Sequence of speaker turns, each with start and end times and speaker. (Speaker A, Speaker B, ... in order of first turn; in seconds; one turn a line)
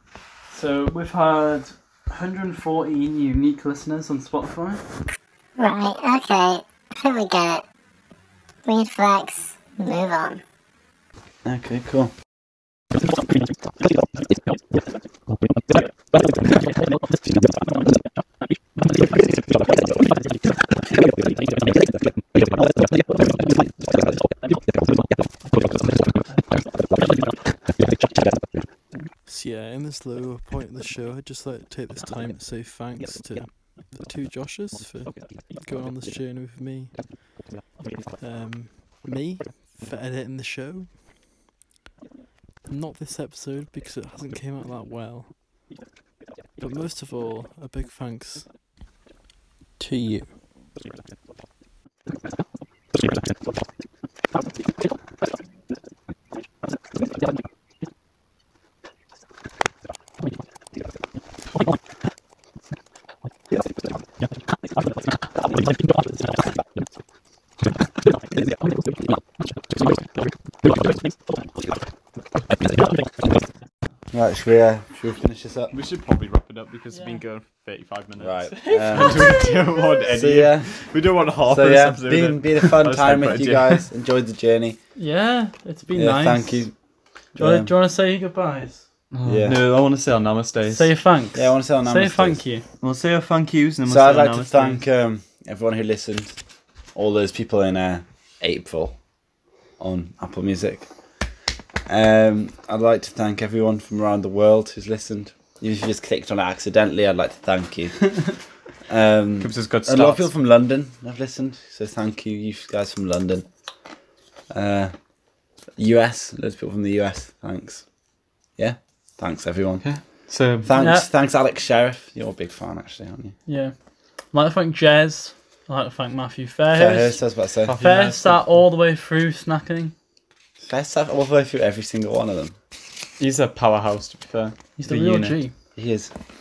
Speaker A: 0.5-4.8
Speaker B: 5.6-7.6
Speaker B: 8.7-10.4
Speaker C: 11.4-12.1
Speaker D: 29.3-37.3
Speaker D: 38.2-41.0
Speaker D: 42.7-45.4
Speaker D: 46.6-48.5
Speaker D: 49.8-50.3
Speaker C: 74.1-75.7
Speaker E: 75.7-83.9
Speaker A: 76.9-77.2
Speaker C: 78.2-79.4
Speaker A: 78.6-79.8
Speaker C: 80.1-80.7
Speaker C: 81.5-84.8
Speaker A: 85.0-86.7
Speaker C: 85.9-86.7
Speaker C: 87.4-87.7
Speaker A: 87.4-88.9
Speaker E: 89.1-90.9
Speaker C: 89.2-89.6
Speaker A: 90.7-92.7
Speaker C: 91.3-92.4
Speaker E: 92.8-94.8
Speaker C: 93.9-96.4
Speaker C: 97.0-99.0
Speaker C: 99.8-100.9
Speaker C: 101.9-108.2
Speaker C: 108.9-113.5
Speaker E: 109.4-110.3
Speaker C: 114.5-114.9
Speaker C: 115.8-117.8
Speaker C: 118.6-119.9
Speaker E: 119.8-120.7
Speaker C: 120.6-123.3
Speaker A: 120.8-121.1
Speaker A: 123.5-123.7
Speaker A: 124.3-127.2
Speaker C: 126.7-127.8
Speaker E: 127.7-128.5
Speaker A: 127.8-129.9
Speaker C: 130.6-132.6
Speaker E: 133.2-135.4
Speaker A: 134.8-135.5
Speaker C: 135.8-136.1